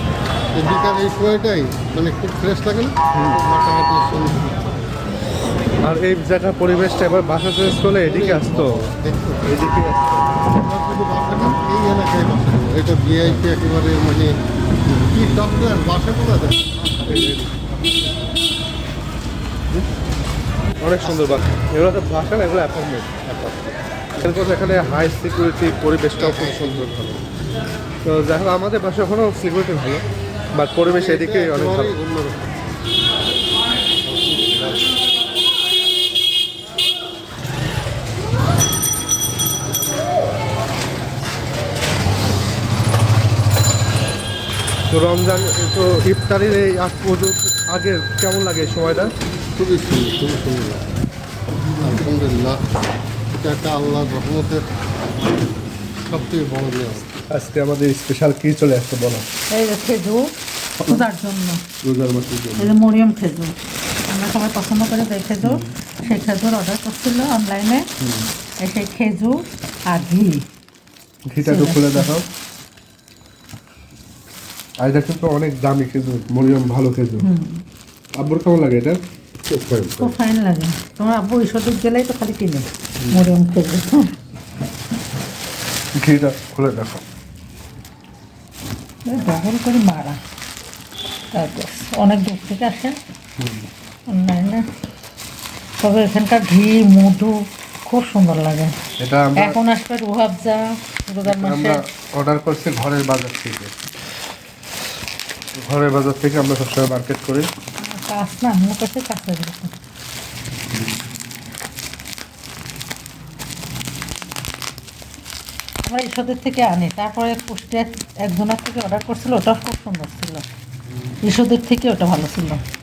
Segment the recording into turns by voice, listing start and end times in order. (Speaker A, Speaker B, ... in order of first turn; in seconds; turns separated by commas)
Speaker A: 0.5-4.7, Speaker B: 3.1-3.4, Speaker B: 5.8-8.8, Speaker A: 8.0-9.5, Speaker B: 9.4-10.4, Speaker A: 10.5-14.3, Speaker A: 15.0-17.3, Speaker B: 17.1-17.6, Speaker B: 20.8-27.2, Speaker A: 26.2-26.9, Speaker B: 28.0-30.0, Speaker B: 30.6-31.9, Speaker A: 30.9-32.7, Speaker A: 34.1-34.6, Speaker B: 44.9-49.1, Speaker A: 49.5-50.9, Speaker A: 51.7-52.6, Speaker A: 53.4-54.6, Speaker A: 56.0-57.1, Speaker B: 57.3-59.2, Speaker C: 59.5-61.6, Speaker B: 61.8-62.8, Speaker C: 62.6-63.5, Speaker C: 64.1-67.9, Speaker B: 65.4-65.7, Speaker B: 68.0-68.3, Speaker C: 68.6-70.5, Speaker B: 71.3-72.2, Speaker C: 71.4-72.1, Speaker B: 74.8-77.3, Speaker C: 77.2-77.6, Speaker B: 78.2-80.2, Speaker C: 80.0-84.1, Speaker B: 83.0-83.3, Speaker B: 85.9-87.0, Speaker C: 89.0-90.2, Speaker C: 91.3-93.0, Speaker B: 93.4-93.7, Speaker C: 94.1-94.6, Speaker C: 95.8-98.7, Speaker B: 99.0-99.6, Speaker C: 99.3-101.8, Speaker B: 101.2-103.8, Speaker B: 105.6-107.5, Speaker C: 107.8-109.7, Speaker C: 115.8-120.4, Speaker C: 121.2-122.6